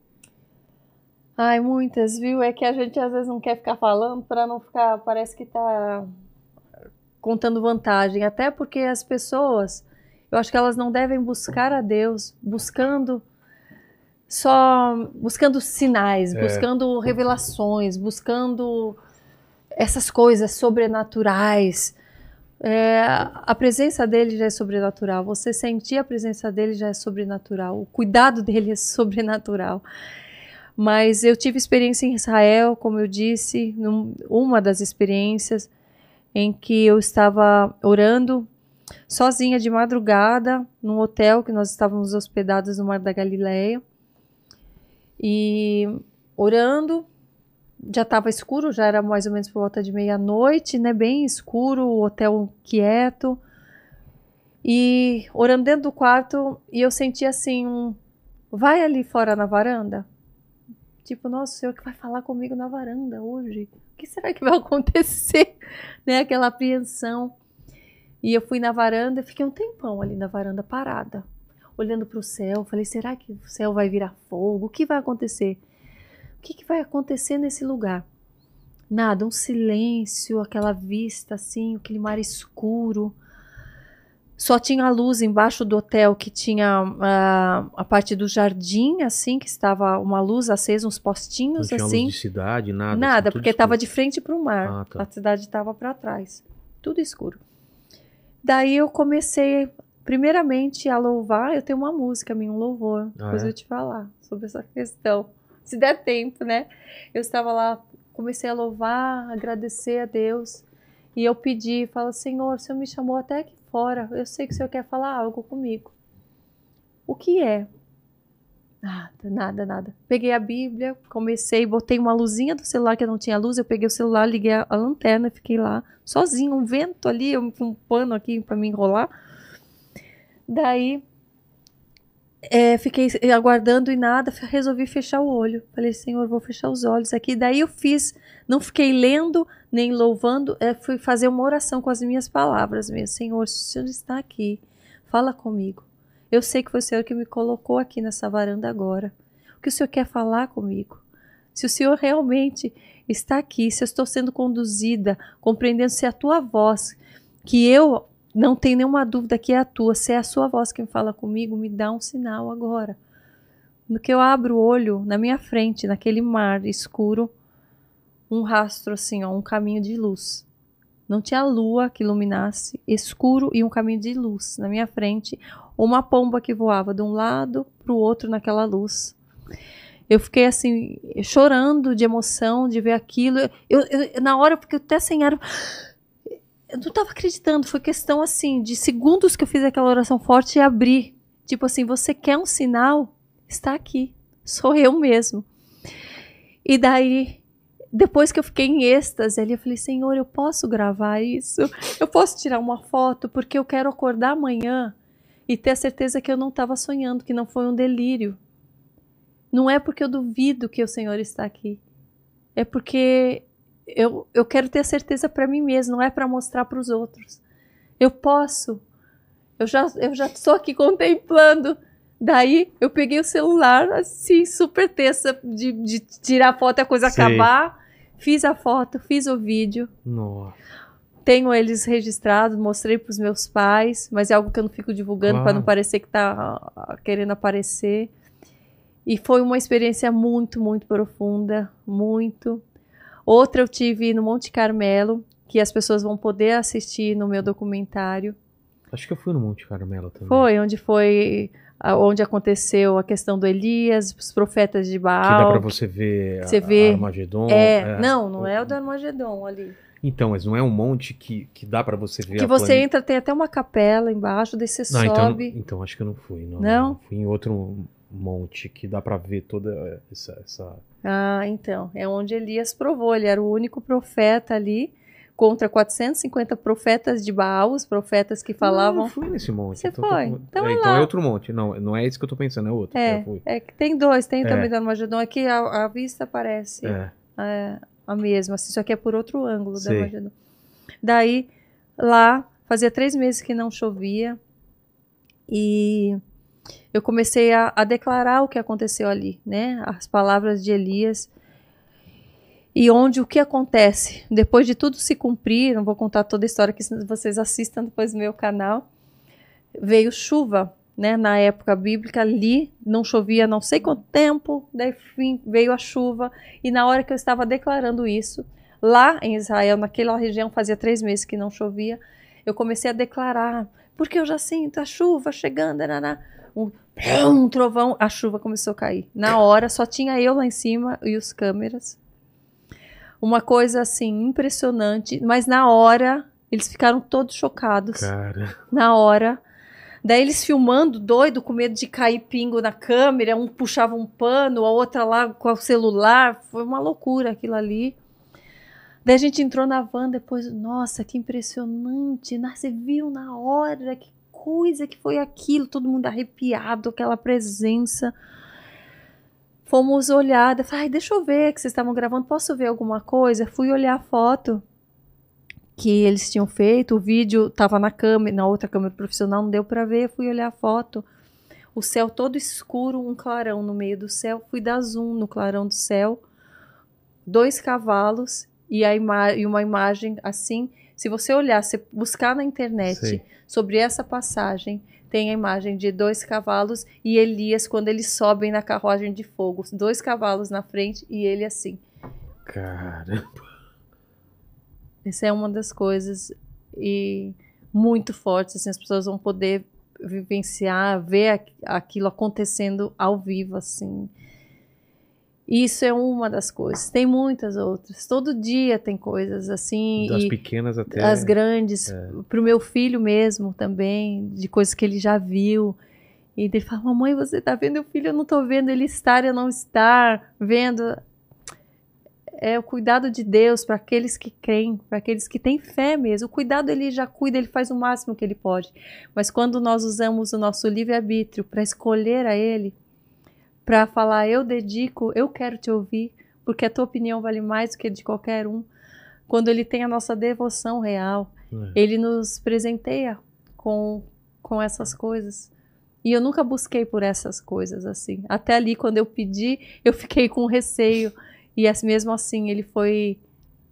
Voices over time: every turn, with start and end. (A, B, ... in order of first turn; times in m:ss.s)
0:01.4-0:06.1 A
0:07.2-0:13.2 A
0:14.3-0:19.0 A
0:16.3-0:16.7 B
0:19.8-0:22.0 A
0:22.6-0:29.8 A
0:30.8-0:35.7 A
0:36.3-0:38.5 A
0:39.1-0:43.8 A
0:45.2-0:47.1 A
0:47.8-0:53.4 A
0:54.6-0:58.0 A
0:58.5-1:00.0 A
1:01.0-1:05.5 A
1:06.1-1:07.3 A
1:08.2-1:11.2 A
1:11.8-1:15.6 A
1:16.4-1:18.0 A
1:18.9-1:23.2 A
1:24.4-1:32.2 A
1:31.6-1:33.8 B
1:32.9-1:37.4 A
1:34.6-1:35.1 B
1:38.4-1:50.6 A
1:43.2-1:43.5 B
1:51.2-1:55.9 A
1:57.1-1:57.7 A
1:58.8-2:09.1 A
2:10.5-2:11.0 A
2:12.5-2:31.0 A
2:31.5-2:43.0 A
2:43.9-2:47.3 A
2:48.3-2:50.4 A
2:51.1-2:59.2 A
3:00.1-3:05.8 A
3:06.7-3:15.5 A
3:16.6-3:17.4 A
3:17.9-3:24.9 A
3:25.5-3:28.4 A
3:29.5-3:31.8 A
3:32.6-3:37.4 A
3:38.0-3:38.8 A
3:39.6-3:49.9 A
3:47.0-3:47.5 B
3:50.0-3:50.6 B
3:51.2-3:58.1 A
3:55.2-3:55.7 B
3:59.1-4:02.6 A
4:03.3-4:08.4 A
4:08.9-4:10.5 B
4:10.3-4:15.7 A
4:15.2-4:18.7 B
4:16.4-4:19.8 A
4:20.0-4:22.9 B
4:22.3-4:25.6 A
4:24.9-4:30.8 B
4:26.6-4:27.0 A
4:31.0-4:39.1 A
4:38.6-4:43.4 B
4:39.8-4:41.1 A
4:42.9-4:50.3 A
4:44.4-4:44.7 B
4:46.8-4:47.1 B
4:49.8-4:50.1 B
4:51.0-4:54.4 A
4:55.5-4:56.2 A
4:56.9-5:01.3 A
5:02.8-5:08.8 A
5:09.8-5:32.0 A
5:33.2-5:38.1 A
5:37.9-5:38.6 B
5:38.7-5:39.4 A
5:40.0-5:48.0 A
5:49.0-5:58.1 A
5:59.7-6:04.6 A
6:05.8-6:11.0 A
6:11.8-6:16.2 A
6:17.3-6:31.8 A
6:22.8-6:23.2 B
6:32.4-6:33.4 B
6:35.0-6:44.1 A
6:45.5-6:50.3 A
6:50.0-6:51.3 B
6:50.9-6:55.8 A
6:51.9-6:52.2 B
6:56.4-7:01.0 A
7:02.4-7:12.8 A
7:13.7-7:18.7 A
7:19.3-7:25.5 A
7:21.5-7:21.8 B
7:26.0-7:33.2 A